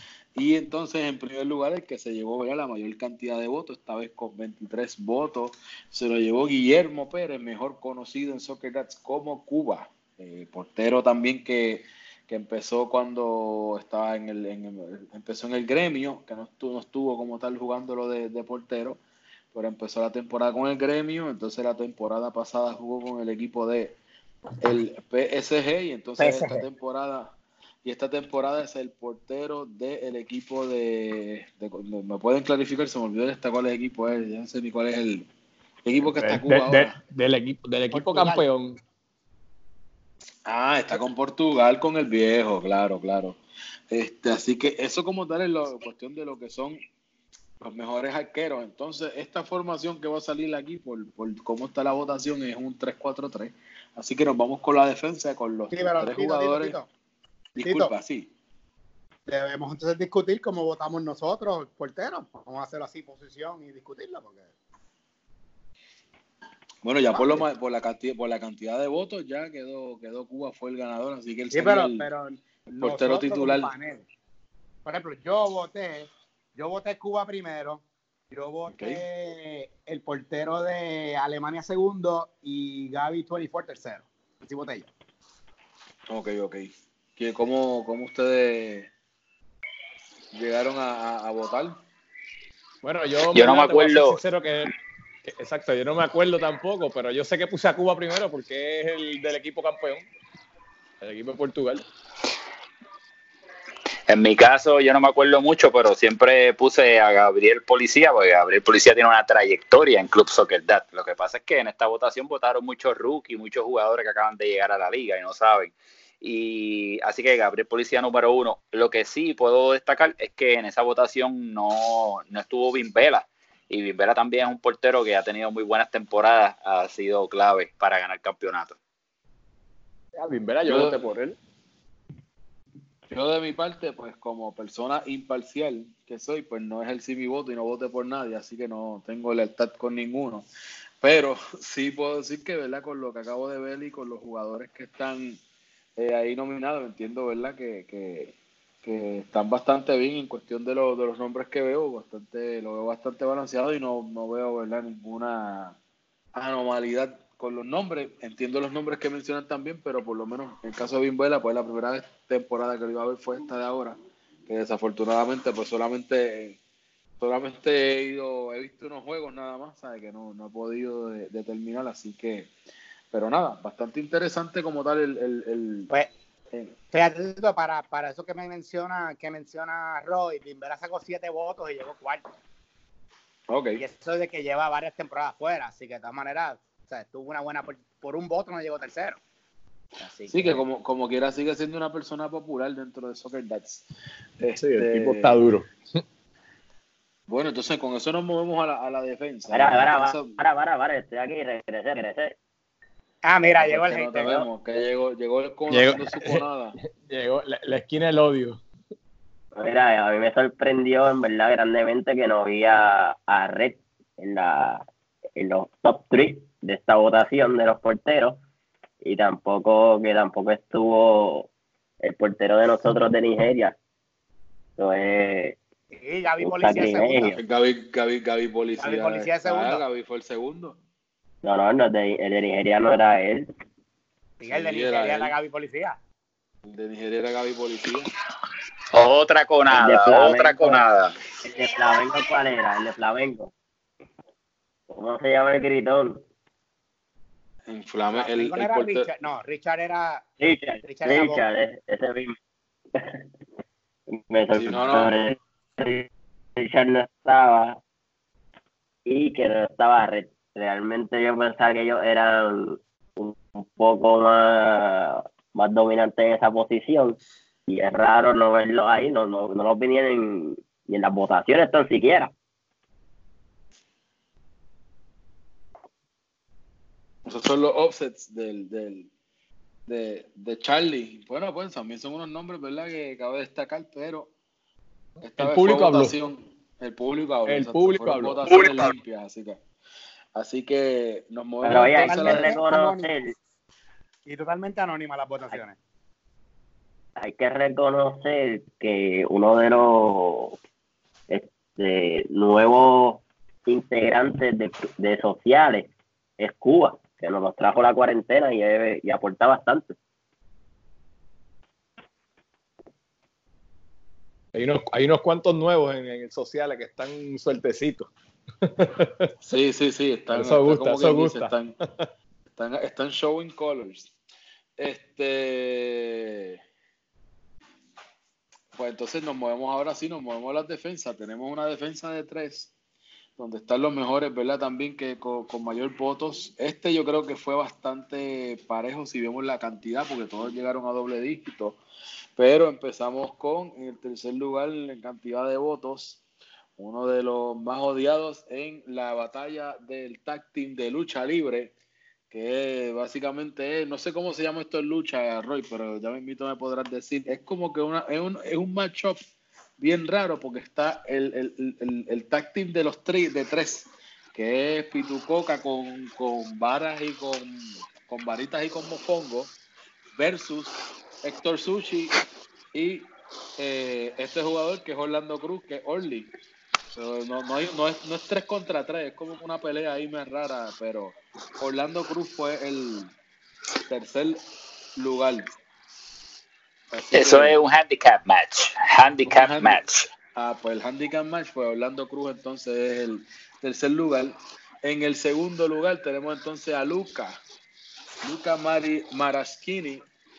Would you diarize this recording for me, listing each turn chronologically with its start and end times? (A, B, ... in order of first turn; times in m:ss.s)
0:00.4-0:19.0 A
0:19.5-0:24.0 A
0:24.6-0:35.3 A
0:26.2-0:26.6 B
0:35.8-0:37.0 A
0:36.2-0:38.8 C
0:37.9-0:38.4 B
0:40.5-0:46.8 A
0:47.6-0:56.8 A
0:55.7-0:56.9 B
0:57.6-0:58.3 A
0:57.6-0:57.9 B
0:59.3-1:04.5 B
1:06.8-1:12.1 A
1:07.1-1:07.5 B
1:11.5-1:14.1 B
1:12.8-1:13.7 A
1:14.9-1:24.9 B
1:18.7-1:19.0 A
1:26.1-1:28.9 A
1:30.3-1:31.8 A
1:32.8-1:40.1 C
1:33.3-1:34.2 D
1:41.0-1:41.8 C
1:44.1-2:08.8 D
2:10.2-2:11.4 C
2:10.6-2:11.0 A
2:13.1-2:20.5 A
2:21.0-2:25.4 A
2:26.0-2:35.8 A
2:36.3-2:46.6 A
2:47.2-2:52.5 A
2:53.1-2:55.9 A
2:56.9-3:02.2 B
3:03.5-3:03.8 A
3:03.8-3:09.2 B
3:10.0-3:10.6 B
3:10.3-3:13.9 A
3:14.4-3:15.4 A
3:14.6-3:16.0 C
3:17.3-3:20.4 A
3:19.5-3:22.4 E
3:23.2-3:24.5 B
3:23.6-3:26.8 A
3:25.7-3:26.4 C
3:27.0-3:28.6 C
3:29.6-3:38.4 E
3:39.0-3:41.5 E
3:42.0-3:43.8 E
3:44.8-3:45.6 E
3:45.9-3:47.4 B
3:46.4-3:47.4 E
3:47.3-3:50.8 A
3:48.8-3:49.8 B
3:51.4-3:53.5 E
3:54.4-3:56.0 B
3:54.5-3:55.3 A
3:56.6-3:58.1 A
3:58.9-4:01.2 D
3:59.7-4:00.8 E
4:01.4-4:03.5 E
4:04.9-4:06.2 E
4:07.7-4:09.1 A
4:08.1-4:10.2 B
4:10.4-4:12.4 E
4:10.8-4:11.5 B
4:13.0-4:13.2 E
4:14.1-4:17.8 E
4:14.6-4:15.2 A
4:19.1-4:32.3 E
4:37.3-4:39.1 A
4:39.9-4:44.3 A
4:45.2-4:49.6 A
4:45.4-4:46.2 C
4:47.5-4:48.9 C
4:50.4-4:52.6 A
4:51.6-4:53.3 E
4:51.8-4:53.1 B
4:54.3-4:55.8 B
4:57.2-5:00.6 E
5:01.3-5:10.0 E
5:14.5-5:18.1 C
5:18.6-5:19.3 C
5:19.4-5:21.8 A
5:20.3-5:22.1 C
5:22.5-5:24.1 A
5:24.8-5:26.6 A
5:28.8-5:32.7 A
5:33.4-5:41.8 A
5:42.4-5:46.2 A
5:46.8-5:51.8 A
5:52.3-5:59.2 A
5:59.8-6:09.6 A
6:10.2-6:12.2 A
6:12.7-6:16.3 A
6:17.0-6:23.1 A
6:23.9-6:24.4 A
6:25.0-6:25.6 A
6:26.9-6:27.6 A
6:27.1-6:30.1 D
6:29.3-6:29.8 A
6:30.3-6:37.4 A
6:38.2-6:40.1 A